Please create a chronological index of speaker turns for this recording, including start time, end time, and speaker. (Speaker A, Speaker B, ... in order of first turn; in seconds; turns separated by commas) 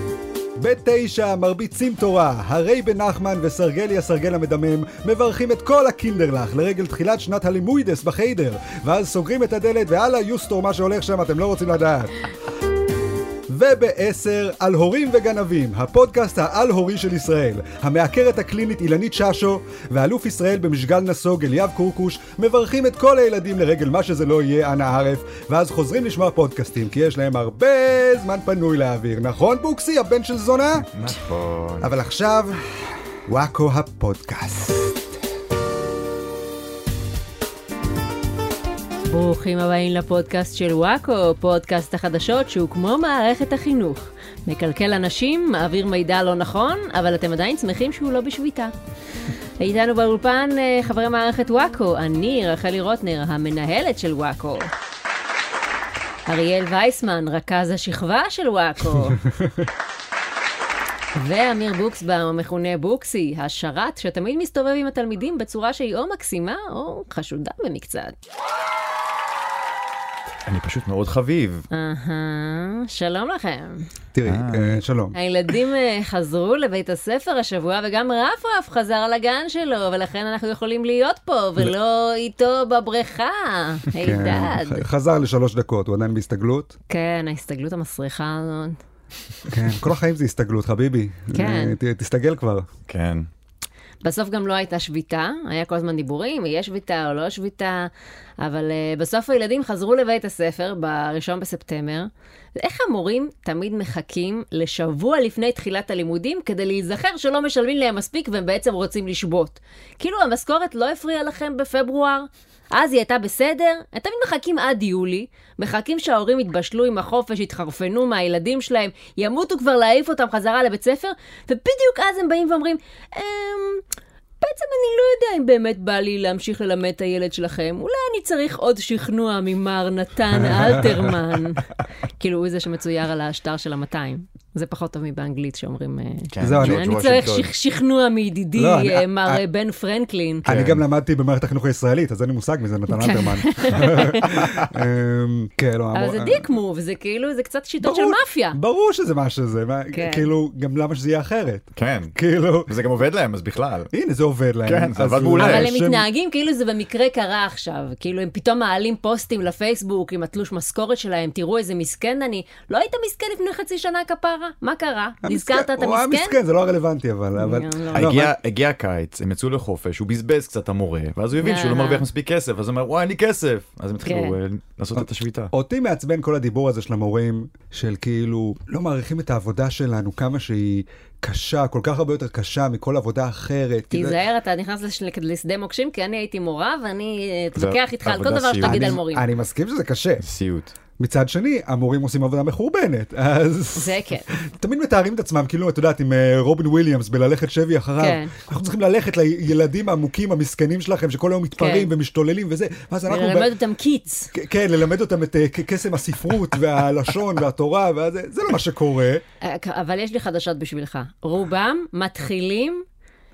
Speaker A: 0.6-12.1, Speaker A: 13.5-30.9, Speaker B: 30.9-31.9, Speaker A: 31.8-32.6, Speaker A: 33.3-35.1, Speaker C: 39.1-48.7, Speaker C: 49.6-54.7, Speaker C: 56.3-59.2, Speaker C: 61.1-68.2, Speaker B: 70.5-71.7, Speaker C: 71.7-73.9, Speaker A: 74.1-75.1, Speaker B: 74.2-74.8, Speaker C: 75.1-84.8, Speaker A: 84.0-86.7, Speaker C: 86.9-88.8, Speaker A: 89.5-92.7, Speaker C: 91.3-91.8, Speaker B: 92.9-93.3, Speaker C: 94.0-123.8, Speaker C: 124.4-140.5, Speaker A: 130.5-131.0, Speaker B: 136.3-137.5, Speaker A: 136.4-137.1, Speaker A: 138.6-139.4, Speaker A: 140.4-146.4, Speaker B: 140.5-140.8, Speaker C: 142.9-144.4, Speaker B: 144.2-144.7, Speaker C: 145.9-148.6, Speaker A: 147.8-152.7, Speaker C: 149.9-150.3, Speaker B: 151.8-152.1, Speaker B: 152.7-153.9, Speaker A: 153.9-156.1, Speaker B: 154.7-155.7, Speaker C: 155.4-166.4, Speaker A: 165.2-168.3, Speaker C: 167.3-168.1, Speaker B: 167.9-175.5, Speaker C: 171.4-172.1, Speaker C: 174.0-174.3, Speaker A: 174.9-184.2, Speaker C: 183.9-189.2, Speaker B: 187.6-189.0, Speaker A: 188.6-190.2, Speaker B: 190.2-190.7, Speaker A: 191.0-203.5, Speaker C: 193.8-194.3, Speaker C: 198.0-198.3, Speaker C: 201.6-201.9, Speaker C: 203.1-204.3, Speaker A: 204.3-209.2, Speaker C: 209.4-212.8